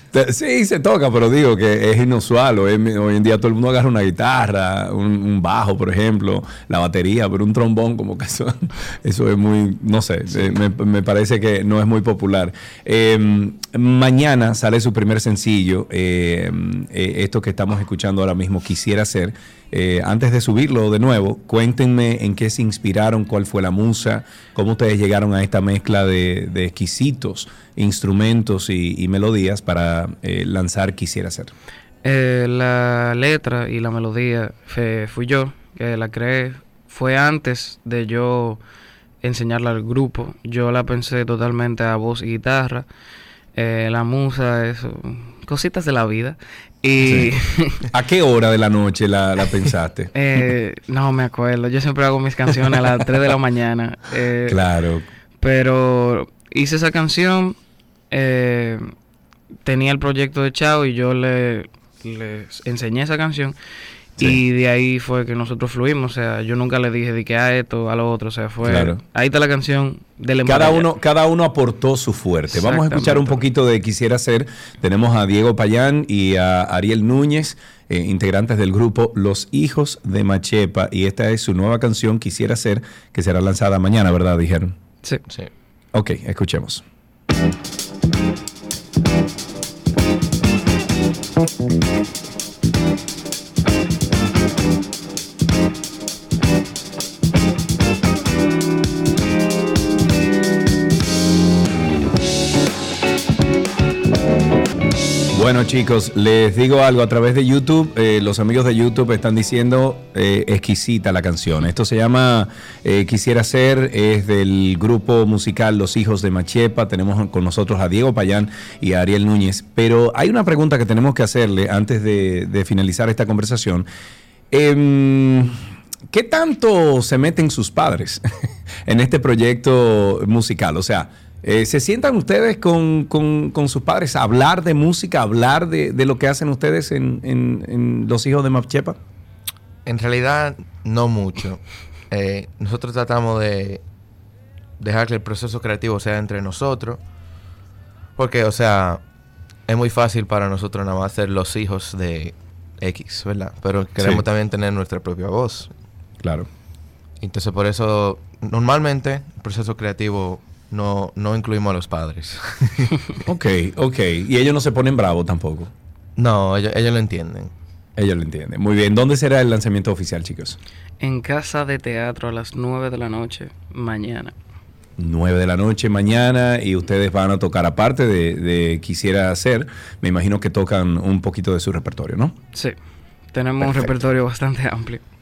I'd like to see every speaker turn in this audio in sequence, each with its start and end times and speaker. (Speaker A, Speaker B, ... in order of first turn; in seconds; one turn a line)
Speaker A: 0.1-31.5
Speaker B: 32.0-38.6
Speaker B: 39.2-42.9
Speaker B: 43.5-47.8
Speaker A: 47.0-47.3
Speaker A: 47.9-50.1
Speaker B: 50.1-54.7
Speaker A: 54.5-55.0
Speaker B: 55.4-57.6
Speaker B: 58.1-58.9
Speaker B: 59.6-63.6
Speaker B: 64.2-70.9
Speaker A: 68.6-69.0
Speaker A: 70.5-84.8
Speaker B: 72.5-73.4
Speaker A: 85.9-86.8
Speaker A: 105.3-123.9
Speaker A: 124.5-125.6
Speaker A: 126.1-128.2
Speaker A: 128.9-139.0
Speaker C: 139.8-143.9
Speaker C: 144.8-147.0
Speaker C: 148.2-149.1
Speaker C: 149.7-155.8
Speaker A: 156.2-156.5
Speaker C: 157.2-162.9
Speaker A: 163.3-165.7
Speaker C: 166.2-167.5
Speaker A: 168.0-170.6
Speaker B: 171.0-174.3
Speaker A: 175.0-182.4
Speaker B: 182.5-185.0
Speaker C: 183.6-183.9